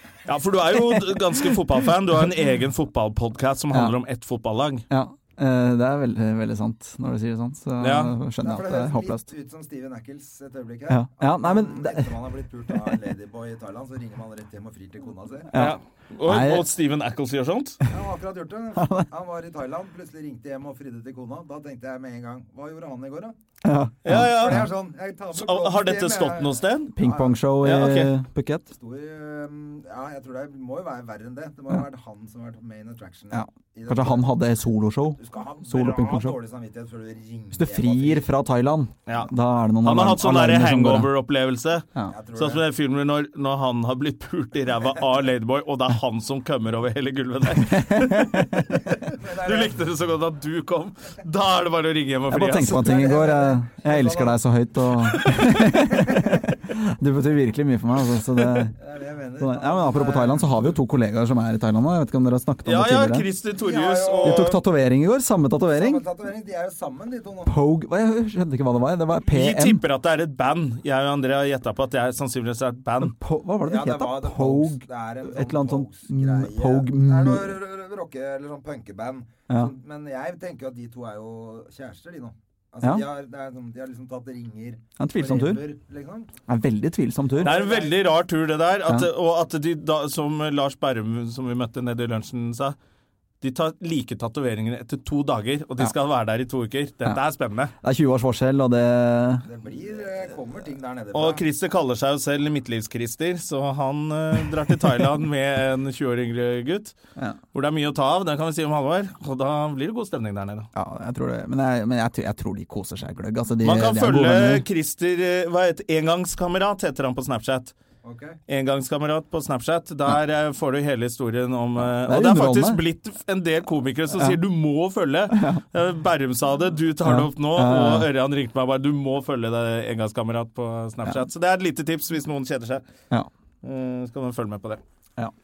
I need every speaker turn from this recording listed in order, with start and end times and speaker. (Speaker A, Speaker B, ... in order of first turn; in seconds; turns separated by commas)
Speaker A: 0.2-4.9, Speaker B: 0.7-1.6, Speaker B: 4.9-9.3, Speaker A: 7.8-8.2, Speaker C: 8.4-15.5, Speaker B: 10.9-12.1, Speaker B: 15.5-16.7, Speaker A: 15.6-17.8, Speaker C: 17.9-23.4, Speaker B: 18.8-19.1, Speaker B: 23.6-24.7, Speaker A: 24.0-24.7, Speaker C: 24.1-27.4, Speaker A: 25.3-26.9, Speaker B: 27.0-28.7, Speaker A: 27.6-28.1, Speaker C: 28.7-34.4, Speaker B: 33.3-36.4, Speaker C: 35.2-38.3, Speaker B: 37.5-41.1, Speaker A: 39.1-39.3, Speaker A: 39.8-52.9, Speaker C: 42.1-42.7, Speaker B: 47.6-48.8, Speaker C: 48.9-49.9, Speaker B: 52.3-58.8, Speaker C: 52.7-54.4, Speaker A: 55.1-55.6, Speaker C: 55.9-56.4, Speaker C: 58.8-60.8, Speaker B: 59.4-63.3, Speaker A: 62.6-64.6, Speaker C: 63.6-64.5, Speaker B: 64.2-66.0, Speaker C: 65.7-67.5, Speaker B: 67.5-69.8, Speaker A: 69.2-73.2, Speaker B: 73.0-77.6, Speaker C: 73.7-86.3, Speaker B: 85.0-85.7, Speaker B: 86.5-87.6, Speaker C: 87.3-87.9, Speaker A: 87.4-92.8, Speaker A: 93.4-97.7, Speaker B: 97.8-99.5, Speaker C: 99.4-101.4, Speaker A: 101.1-107.0, Speaker A: 107.5-110.7, Speaker B: 110.8-114.7, Speaker A: 113.6-117.7, Speaker C: 118.0-118.4, Speaker A: 118.5-132.8, Speaker B: 121.8-122.8, Speaker B: 124.1-124.4, Speaker B: 125.3-125.6, Speaker B: 127.0-128.1, Speaker A: 133.6-134.8